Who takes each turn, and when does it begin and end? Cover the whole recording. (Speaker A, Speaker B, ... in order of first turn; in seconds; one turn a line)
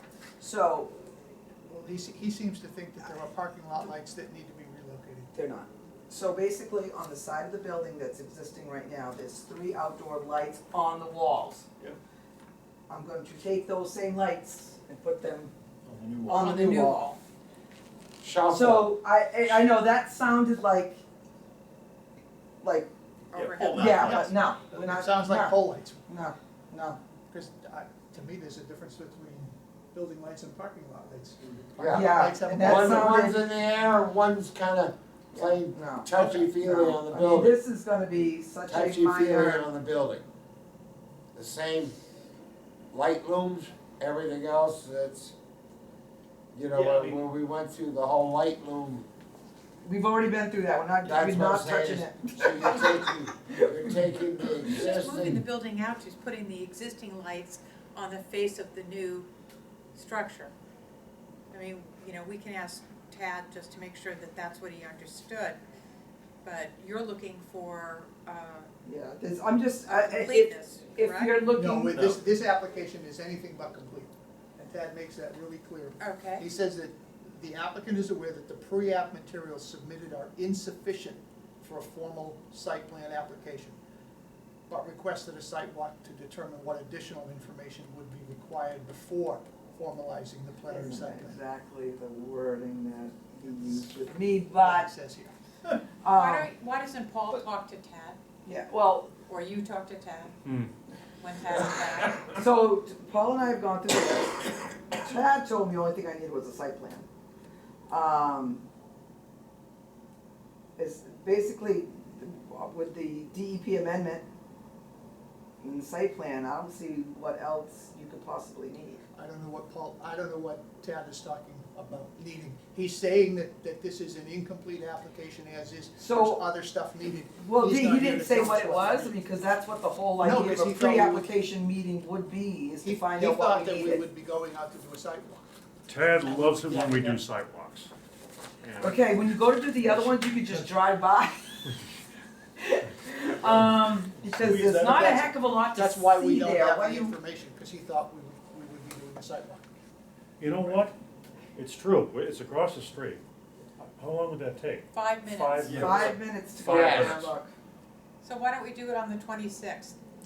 Speaker A: 0.4-0.9
Speaker B: 1.7-5.3
Speaker A: 5.3-11.7
Speaker A: 12.9-15.5
Speaker C: 15.8-16.5
Speaker A: 16.3-17.1
Speaker D: 16.3-17.2
Speaker E: 18.2-19.0
Speaker A: 18.5-21.0
Speaker A: 22.6-22.9
Speaker D: 23.3-24.2
Speaker C: 23.3-24.3
Speaker A: 23.6-25.6
Speaker B: 23.9-26.0
Speaker A: 26.1-27.0
Speaker B: 27.3-33.3
Speaker E: 31.8-37.6
Speaker A: 31.9-33.5
Speaker A: 35.4-36.1
Speaker B: 36.1-36.5
Speaker A: 36.6-39.7
Speaker E: 38.7-40.2
Speaker E: 41.4-42.0
Speaker E: 42.9-45.3
Speaker E: 46.5-49.1
Speaker C: 46.7-47.3
Speaker A: 49.8-53.9
Speaker E: 51.0-55.4
Speaker D: 54.7-59.3
Speaker D: 60.0-60.5
Speaker D: 61.5-65.6
Speaker D: 66.4-68.7
Speaker A: 68.8-72.0
Speaker D: 69.9-71.4
Speaker B: 71.5-83.8
Speaker D: 76.0-76.5
Speaker B: 84.7-91.4
Speaker A: 90.7-94.9
Speaker B: 93.4-95.8
Speaker A: 96.0-96.5
Speaker D: 96.1-98.2
Speaker A: 98.5-99.1
Speaker D: 99.3-100.3
Speaker F: 100.5-100.7
Speaker D: 101.2-102.2
Speaker A: 102.3-107.1
Speaker A: 107.9-108.7
Speaker A: 110.8-114.3
Speaker A: 115.6-119.0
Speaker B: 119.1-129.2
Speaker A: 126.0-126.4
Speaker A: 127.4-134.0
Speaker B: 130.2-131.3
Speaker B: 132.8-135.4
Speaker F: 135.9-137.9
Speaker B: 136.3-137.2
Speaker F: 138.6-139.2
Speaker A: 138.8-141.6
Speaker B: 139.8-140.7
Speaker A: 142.6-147.1
Speaker C: 144.4-145.3
Speaker B: 144.7-149.7
Speaker F: 150.4-150.9
Speaker F: 151.6-153.2
Speaker F: 154.0-157.3
Speaker D: 154.9-155.9
Speaker C: 155.6-156.1
Speaker A: 155.8-157.5
Speaker E: 156.7-157.3
Speaker D: 158.2-160.0